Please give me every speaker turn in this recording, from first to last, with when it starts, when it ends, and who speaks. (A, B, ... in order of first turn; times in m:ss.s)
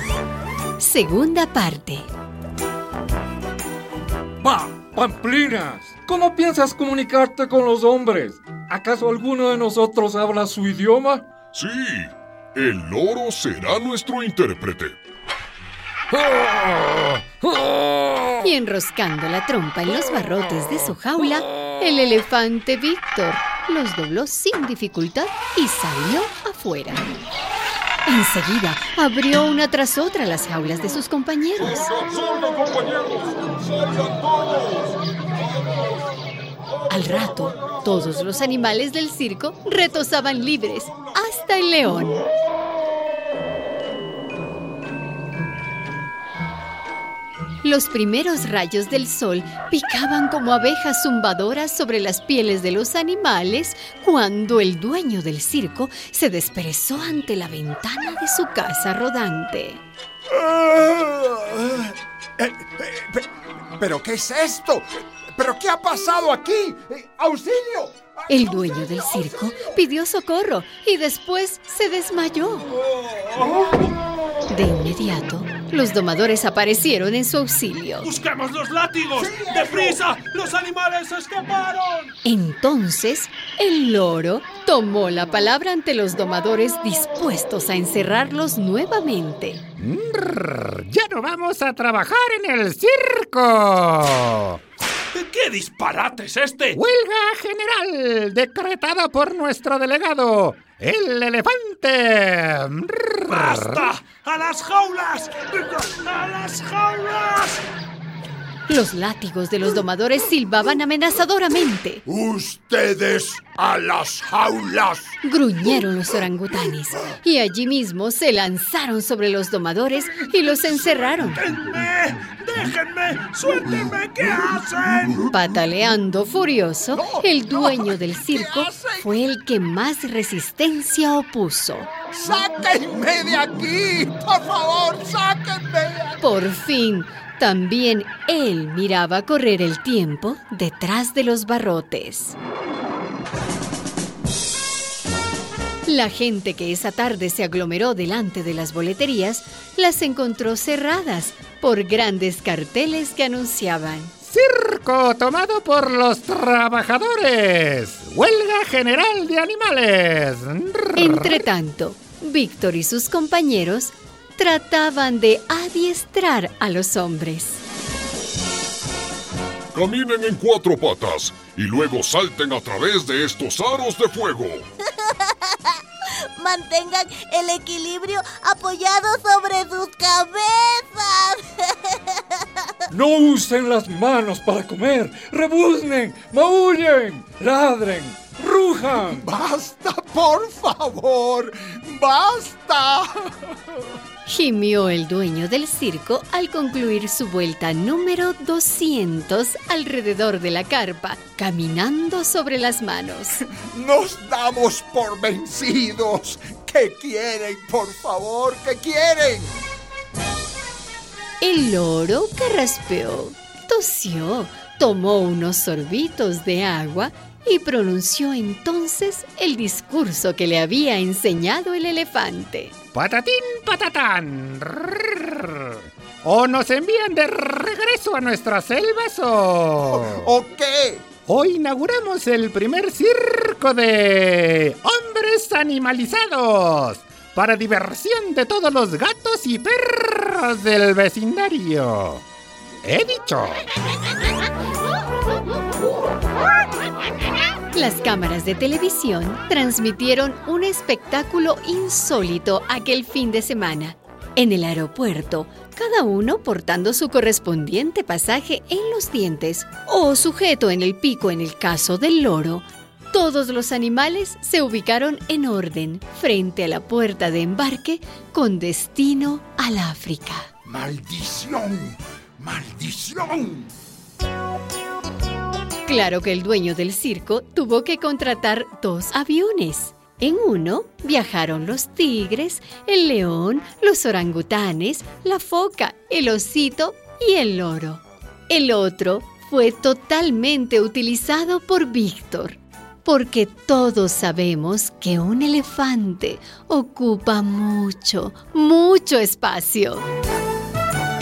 0:00.8-0:02.1 A
0:04.4-0:11.2 B
0:11.5-0:14.9 C
0:18.4-0:27.0 A
0:28.0-0:31.9 A
0:31.6-0:34.9 C
0:36.9-0:42.2 A
0:47.6-0:59.8 A
1:00.3-1:09.8 D
1:08.3-1:12.7 A
1:13.0-1:13.4 D
1:14.5-1:18.1 A
1:18.0-1:22.1 E
1:19.2-1:20.0 D
1:22.2-1:29.6 A
1:29.8-1:34.6 F
1:35.1-1:36.8 E
1:36.7-1:43.9 F
1:43.3-1:47.6 E
1:48.7-1:52.0 A
1:52.0-1:55.1 D
1:55.2-2:01.4 A
2:01.3-2:05.3 E
2:05.3-2:11.9 A
2:06.9-2:09.1 D
2:12.1-2:16.2 D
2:16.2-2:22.4 A
2:25.8-2:34.1 A
2:34.2-2:41.4 F
2:41.0-2:47.6 A
2:49.7-2:54.6 C
2:55.1-2:55.4 G
2:56.3-3:02.4 G
3:02.9-3:09.3 B
3:09.0-3:13.3 D
3:14.2-3:23.4 A
3:23.5-3:29.6 D
3:31.4-3:42.7 A
3:42.9-3:50.3 F
3:49.9-3:51.0 D
3:51.3-4:02.2 F
4:02.8-4:03.6 F
4:07.7-4:30.5 A
4:30.6-4:33.7 D
4:35.8-5:00.0 A